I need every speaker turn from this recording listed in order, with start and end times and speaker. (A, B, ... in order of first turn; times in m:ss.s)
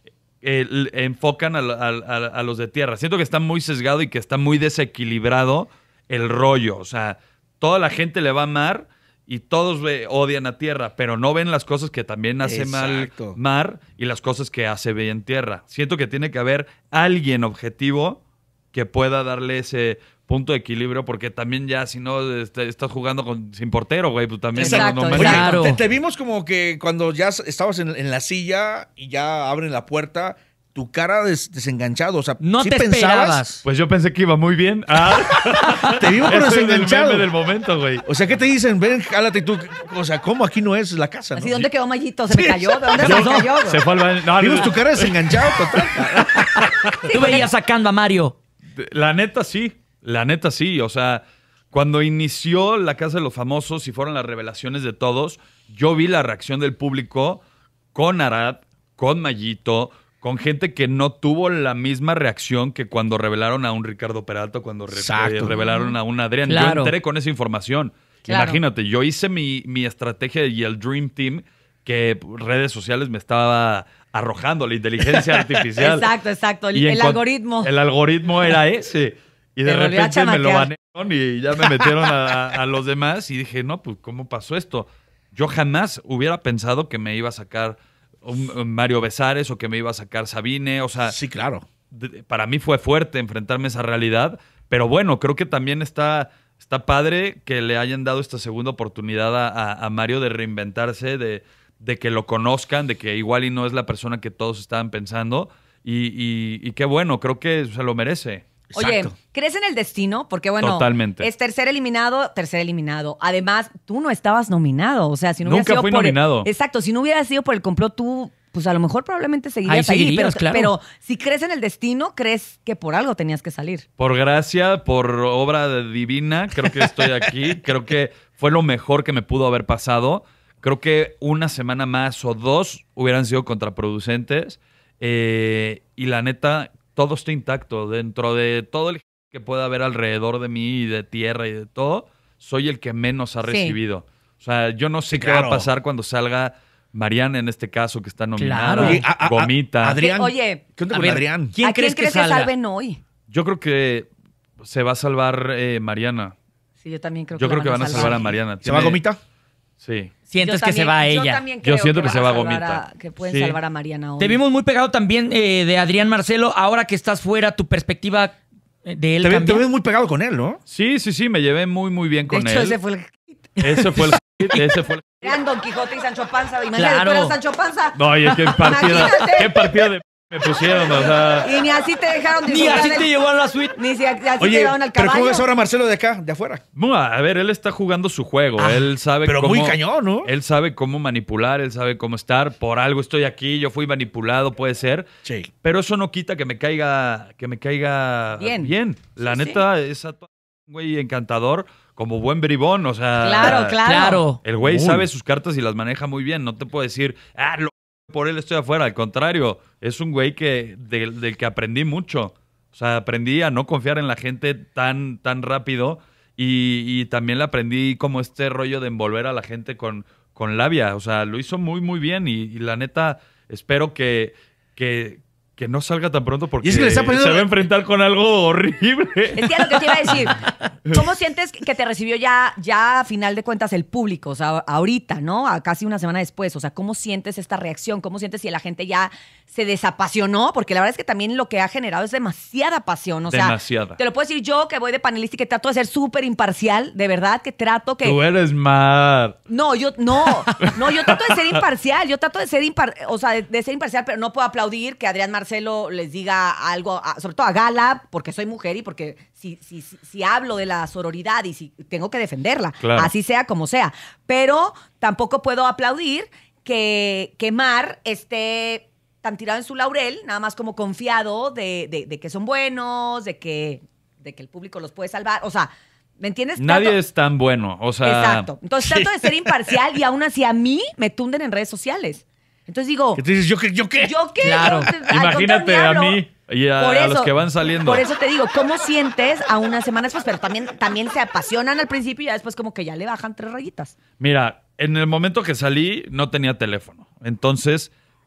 0:00.4-0:18.2 A
0:12.4-0:13.4 B
0:18.7-0:25.5 A
0:24.6-0:25.4 C
0:24.6-0:33.4 B
0:25.1-0:25.8 D
0:32.4-0:33.6 D
0:33.6-0:38.0 A
0:35.9-0:37.3 B
0:38.0-0:41.5 B
0:41.3-0:43.8 C
0:42.3-0:42.9 B
0:43.0-0:46.1 A
0:43.0-0:43.5 D
0:44.4-0:46.3 B
0:46.3-0:48.4 D
0:47.0-0:47.5 C
0:48.7-0:57.4 A
0:57.9-1:16.1 A
1:04.9-1:05.6 B
1:06.5-1:06.9 D
1:08.3-1:08.6 C
1:15.1-1:15.4 B
1:15.8-1:17.7 C
1:16.7-1:31.2 A
1:19.6-1:20.7 C
1:31.1-1:31.6 B
1:31.9-1:48.4 A
1:48.7-1:49.1 B
1:48.7-2:03.8 C
1:50.6-1:51.3 A
1:55.4-1:56.5 A
1:59.6-2:00.7 D
2:04.0-2:30.0 A
2:23.4-2:23.8 C
2:25.1-2:25.6 B
2:28.4-2:29.0 D
2:28.8-2:31.5 B
2:30.0-2:30.6 C
2:30.9-2:32.5 D
2:31.6-2:33.0 C
2:33.3-2:34.1 A
2:34.6-2:36.3 A
2:36.8-2:38.3 C
2:37.3-2:39.0 A
2:38.0-2:39.2 B
2:39.8-2:40.1 A
2:40.3-2:41.4 D
2:40.4-2:44.4 C
2:41.6-2:43.6 A
2:44.2-2:49.6 D
2:49.2-2:50.6 B
2:50.7-2:52.8 A
2:52.3-2:53.4 C
2:53.6-2:55.4 A
2:53.6-2:54.6 D
2:55.2-2:59.5 C
2:56.7-2:57.4 D
2:57.9-3:01.5 A
3:01.4-3:03.1 C
3:02.5-3:03.7 D
3:03.7-3:05.5 C
3:04.4-3:06.6 B
3:06.8-3:15.1 A
3:08.6-3:10.3 B
3:15.6-3:23.8 A
3:18.4-3:18.7 C
3:19.2-3:19.6 C
3:23.2-3:24.2 C
3:23.4-3:24.4 D
3:24.4-3:50.2 A
3:24.6-3:25.1 B
3:46.6-3:47.5 B
3:49.4-4:08.2 C
4:03.3-4:04.0 A
4:08.0-4:09.4 A
4:09.5-4:37.0 C
4:22.8-4:23.1 A
4:36.6-4:38.5 A
4:38.0-4:43.2 C
4:38.8-4:39.5 B
4:43.2-4:44.1 B
4:44.0-4:46.2 C
4:44.4-4:44.9 D
4:45.0-4:48.0 A
4:46.8-4:53.9 C
4:54.2-4:57.9 A